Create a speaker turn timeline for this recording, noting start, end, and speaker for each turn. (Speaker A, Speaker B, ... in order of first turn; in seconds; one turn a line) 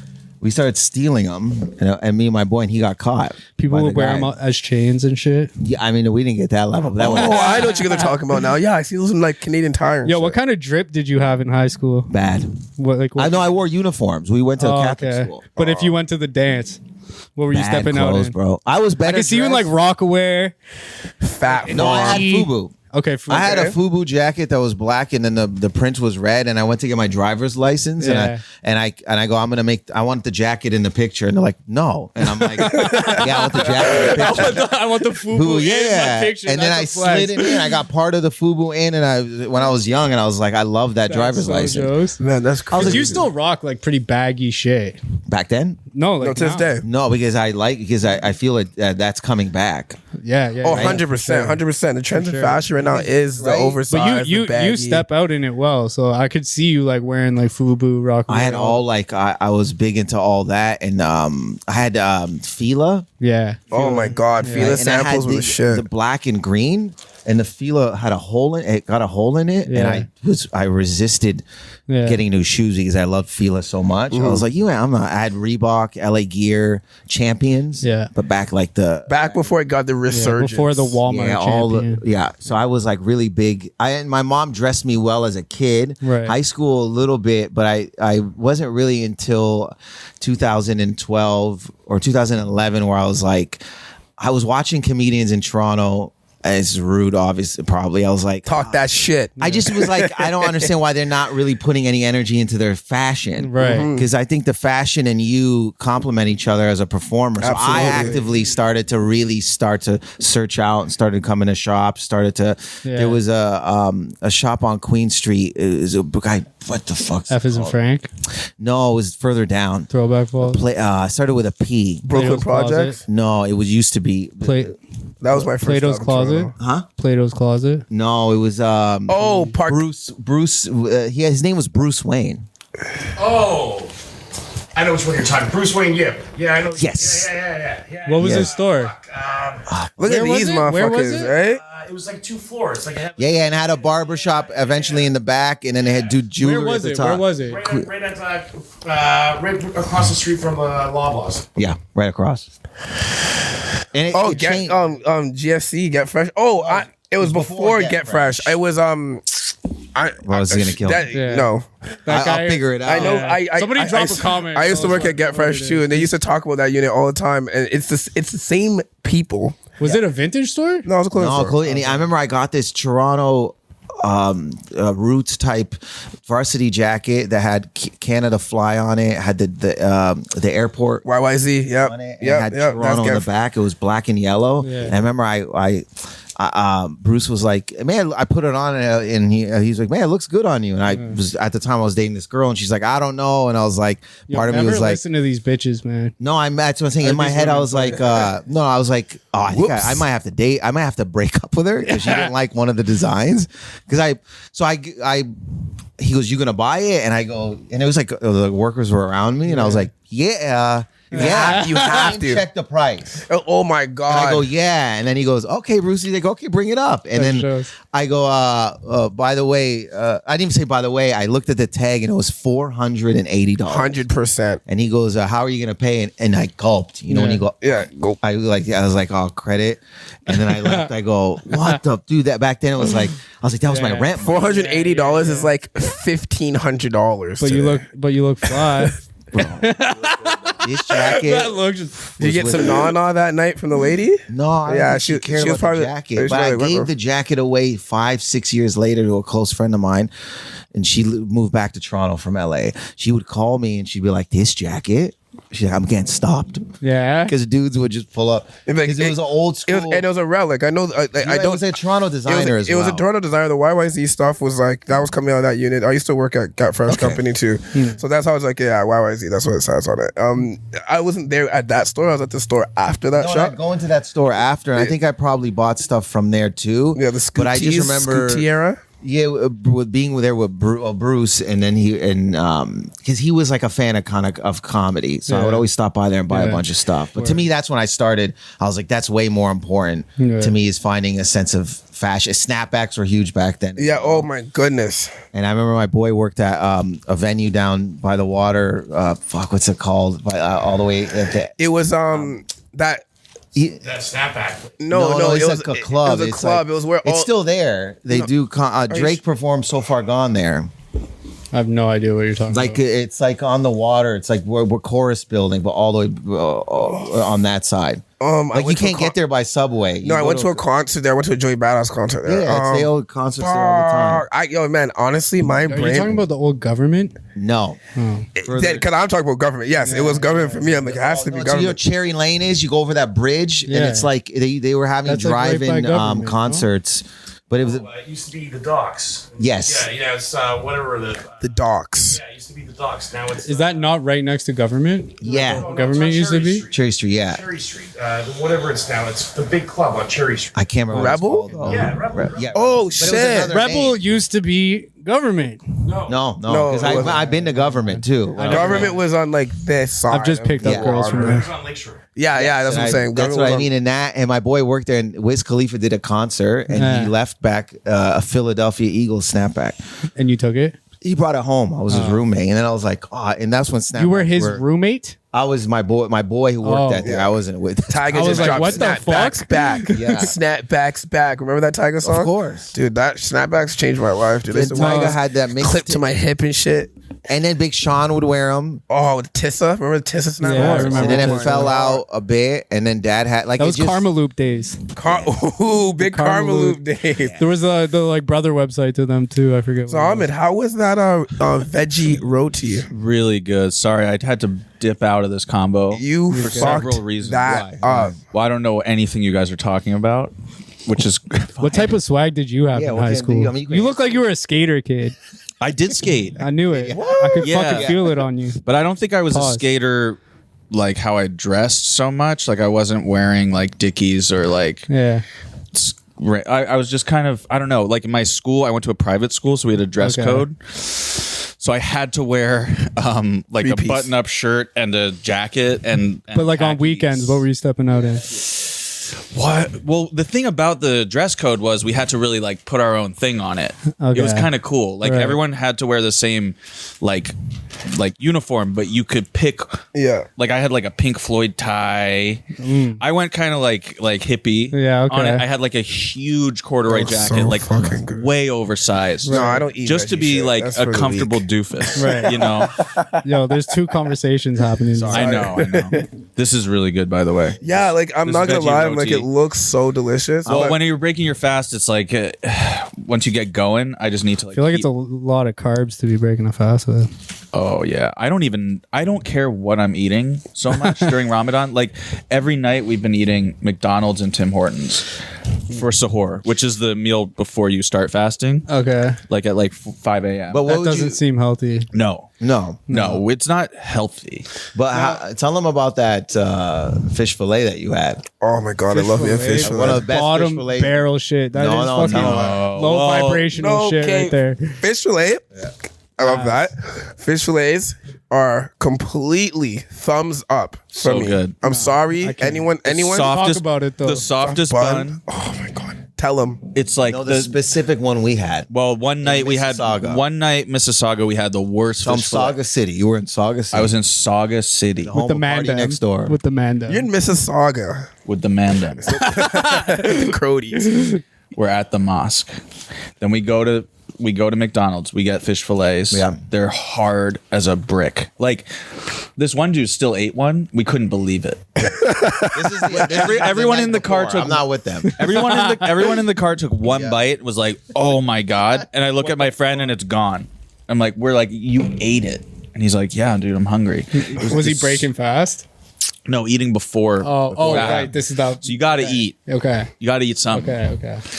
Speaker A: 0.4-4.3
Speaker B: 3.6-5.5
Speaker A: 5.6-7.7
Speaker C: 7.0-10.4
Speaker B: 7.2-8.2
Speaker B: 10.0-12.1
Speaker A: 12.1-12.5
Speaker B: 12.8-13.4
Speaker A: 13.2-15.5
Speaker B: 14.6-16.8
Speaker B: 17.4-18.4
Speaker A: 17.5-19.7
Speaker B: 19.0-20.5
Speaker C: 21.2-22.2
Speaker B: 21.5-23.7
Speaker A: 21.7-22.7
Speaker A: 23.3-34.7
Speaker C: 23.3-23.7
Speaker B: 28.0-28.4
Speaker B: 32.4-37.7
Speaker C: 32.8-33.2
Speaker A: 35.3-42.0
Speaker B: 41.1-45.0
Speaker C: 42.2-43.2
Speaker A: 42.7-43.3
Speaker A: 45.3-45.8
Speaker B: 45.9-46.7
Speaker C: 46.2-46.9
Speaker A: 46.8-50.0
Speaker B: 50.2-53.0
Speaker C: 50.6-55.0
Speaker A: 50.7-51.0
Speaker A: 53.4-53.8
Speaker B: 53.9-58.8
Speaker A: 58.3-63.0
Speaker B: 63.2-64.8
Speaker C: 63.7-65.8
Speaker A: 64.4-71.4
Speaker B: 69.7-70.0
Speaker B: 71.9-72.2
Speaker A: 72.0-79.5
Speaker C: 74.1-74.4
Speaker B: 77.8-78.1
Speaker C: 79.1-81.0
Speaker B: 80.1-82.0
Speaker A: 81.0-93.6
Speaker B: 86.0-86.4
Speaker A: 94.2-98.9
Speaker C: 98.5-100.7
Speaker B: 99.4-99.7
Speaker A: 99.4-117.8
Speaker B: 103.4-103.9
Speaker C: 103.6-104.1
Speaker C: 107.4-108.2
Speaker B: 107.7-108.3
Speaker B: 112.8-113.2
Speaker B: 117.3-118.1
Speaker A: 118.6-119.9
Speaker B: 119.9-120.6
Speaker A: 120.4-122.1
Speaker C: 122.0-123.0
Speaker B: 122.1-123.0
Speaker A: 123.0-124.7
Speaker B: 124.4-124.7
Speaker C: 125.2-126.5
Speaker B: 125.3-127.8
Speaker A: 126.6-126.8
Speaker A: 127.9-132.4
Speaker C: 129.1-129.8
Speaker B: 129.2-129.5
Speaker D: 133.2-133.9
Speaker D: 134.7-139.7
Speaker A: 136.8-137.3
Speaker B: 138.1-138.9
Speaker A: 138.2-138.5
Speaker A: 139.7-140.3
Speaker C: 140.0-141.6
Speaker B: 140.0-141.3
Speaker D: 141.2-145.1
Speaker A: 143.2-147.9
Speaker D: 145.8-146.1
Speaker B: 146.4-147.6
Speaker D: 147.4-151.5
Speaker A: 151.6-152.5
Speaker A: 153.9-154.8
Speaker C: 154.1-161.7
Speaker A: 156.6-158.6
Speaker A: 160.2-161.1
Speaker B: 161.1-161.5
Speaker B: 162.0-166.1
Speaker A: 162.1-163.3
Speaker C: 162.8-169.8
Speaker B: 169.8-170.9
Speaker C: 170.8-171.6
Speaker A: 171.1-181.0
Speaker B: 171.6-172.0
Speaker C: 181.0-183.3
Speaker A: 181.8-195.0
Speaker B: 184.6-184.9
Speaker B: 194.3-196.1
Speaker A: 196.2-205.3
Speaker B: 197.0-197.9
Speaker C: 197.1-198.1
Speaker C: 199.5-200.0
Speaker B: 201.8-202.3
Speaker A: 206.0-213.2
Speaker B: 209.5-209.9
Speaker B: 211.1-212.1
Speaker C: 211.1-212.4
Speaker C: 213.3-214.4
Speaker A: 214.1-224.0
Speaker B: 217.1-217.7
Speaker C: 223.7-224.6
Speaker A: 224.7-234.6
Speaker B: 227.1-227.4
Speaker C: 227.6-228.2
Speaker B: 230.3-230.9
Speaker B: 231.5-231.8
Speaker B: 233.7-235.5
Speaker C: 234.2-237.8
Speaker B: 237.4-242.2
Speaker C: 238.4-238.9
Speaker A: 239.3-239.8
Speaker D: 240.0-240.5
Speaker A: 240.6-241.6
Speaker A: 242.2-242.9
Speaker C: 242.2-246.9
Speaker A: 244.3-250.1
Speaker A: 250.7-256.7
Speaker B: 256.8-257.3
Speaker A: 257.2-260.1
Speaker C: 258.7-261.7
Speaker A: 261.2-263.0
Speaker C: 262.2-273.5
Speaker A: 266.9-267.2
Speaker B: 267.7-268.0
Speaker A: 273.1-278.4
Speaker C: 276.9-278.8
Speaker A: 279.0-294.3
Speaker B: 285.2-285.6
Speaker B: 286.3-286.6
Speaker B: 287.1-287.4
Speaker B: 290.2-290.5
Speaker C: 293.8-295.1
Speaker A: 295.3-301.5
Speaker C: 301.6-303.0
Speaker A: 302.1-302.4
Speaker A: 303.5-303.8
Speaker D: 303.8-304.8
Speaker C: 304.8-307.3
Speaker A: 304.9-310.7
Speaker C: 308.9-309.2
Speaker B: 311.5-312.8
Speaker A: 312.5-320.6
Speaker C: 318.2-319.1
Speaker C: 320.0-322.9
Speaker A: 322.2-324.2
Speaker C: 323.4-326.2
Speaker B: 325.5-327.1
Speaker A: 327.4-327.8
Speaker B: 327.9-328.3
Speaker C: 328.4-331.8
Speaker A: 328.4-328.9
Speaker B: 329.8-330.9
Speaker A: 330.8-337.9
Speaker B: 333.7-334.1
Speaker B: 335.0-336.6
Speaker D: 337.6-343.9
Speaker A: 339.4-339.9
Speaker C: 341.4-342.2
Speaker B: 343.4-346.6
Speaker A: 345.2-345.7
Speaker D: 345.2-350.6
Speaker A: 346.7-347.4
Speaker A: 350.5-354.0
Speaker C: 350.9-351.5
Speaker B: 350.9-351.9
Speaker D: 351.6-352.9
Speaker C: 352.5-353.5
Speaker B: 353.4-355.6
Speaker D: 355.8-356.2
Speaker A: 356.1-359.0
Speaker C: 356.4-357.2
Speaker B: 356.8-359.0
Speaker C: 358.4-361.5
Speaker B: 360.1-361.5
Speaker A: 360.6-360.9
Speaker D: 361.0-362.1
Speaker C: 362.1-363.7
Speaker A: 362.3-369.8
Speaker B: 366.7-367.1
Speaker B: 370.1-370.8
Speaker A: 371.0-374.6
Speaker B: 371.9-372.2
Speaker B: 373.9-375.1
Speaker A: 375.3-379.0
Speaker B: 376.6-377.1
Speaker C: 377.0-377.4
Speaker C: 377.9-386.9
Speaker B: 378.1-380.2
Speaker A: 379.9-380.3
Speaker A: 382.0-382.7
Speaker A: 384.5-386.1
Speaker B: 384.7-385.2
Speaker A: 387.3-388.8
Speaker C: 388.9-392.0
Speaker B: 390.4-391.7
Speaker A: 390.5-394.0
Speaker B: 393.6-394.8
Speaker C: 394.9-397.4
Speaker A: 395.0-395.4
Speaker B: 396.0-396.8
Speaker A: 397.1-397.4
Speaker B: 397.4-400.3
Speaker C: 399.9-402.9
Speaker E: 402.9-407.7
Speaker C: 405.9-408.1
Speaker B: 406.3-406.9
Speaker A: 407.4-408.2
Speaker E: 408.3-410.3
Speaker E: 410.9-411.9
Speaker B: 411.6-415.1
Speaker A: 412.7-414.2
Speaker E: 415.6-416.4
Speaker B: 416.4-418.6
Speaker A: 416.7-418.2
Speaker E: 417.4-417.9
Speaker E: 418.6-420.2
Speaker B: 419.3-419.6
Speaker E: 420.7-424.9
Speaker B: 424.9-425.2
Speaker E: 425.7-437.4
Speaker B: 430.0-430.4
Speaker C: 433.6-434.1
Speaker B: 436.3-438.3
Speaker E: 438.3-447.3
Speaker B: 444.0-444.5
Speaker B: 445.0-445.4
Speaker E: 447.9-449.8
Speaker C: 449.9-450.3
Speaker E: 450.4-462.8
Speaker B: 452.6-453.0
Speaker B: 454.7-455.4
Speaker C: 456.9-458.3
Speaker B: 459.2-459.6
Speaker C: 459.3-462.7
Speaker B: 461.9-462.4
Speaker B: 463.2-465.5
Speaker E: 465.0-467.6
Speaker C: 465.1-466.1
Speaker C: 467.6-470.8
Speaker E: 468.2-469.3
Speaker E: 470.4-474.9
Speaker B: 474.5-477.1
Speaker E: 477.5-485.2
Speaker E: 485.7-488.7
Speaker B: 488.7-489.2
Speaker E: 489.3-490.6
Speaker A: 490.5-491.2
Speaker B: 490.7-491.9
Speaker E: 491.9-492.3
Speaker A: 492.4-492.9
Speaker B: 492.9-493.2
Speaker E: 492.9-494.5
Speaker A: 494.7-498.2
Speaker C: 498.4-500.0
Speaker B: 498.9-504.8
Speaker A: 499.6-502.5
Speaker E: 502.0-503.5
Speaker C: 503.5-505.5
Speaker C: 506.2-513.3
Speaker B: 506.2-506.7
Speaker E: 510.9-511.5
Speaker B: 511.6-514.2
Speaker E: 512.8-515.2
Speaker C: 514.4-516.6
Speaker E: 516.7-517.6
Speaker A: 517.0-518.7
Speaker E: 518.7-522.6
Speaker A: 519.2-520.2
Speaker A: 522.0-523.9
Speaker E: 523.7-525.1
Speaker A: 525.0-526.4
Speaker B: 525.1-527.1
Speaker C: 526.9-528.1
Speaker E: 528.2-529.2
Speaker C: 529.0-531.2
Speaker B: 529.3-530.1
Speaker E: 531.5-532.5
Speaker E: 533.2-538.7
Speaker A: 536.1-536.4
Speaker E: 539.4-542.1
Speaker C: 541.8-543.0
Speaker A: 542.5-545.3
Speaker E: 542.9-555.1
Speaker B: 545.2-546.1
Speaker A: 546.8-547.2
Speaker B: 554.1-555.6
Speaker E: 556.3-559.4
Speaker B: 557.2-559.9
Speaker A: 557.5-558.1
Speaker E: 560.0-560.8
Speaker B: 560.5-561.2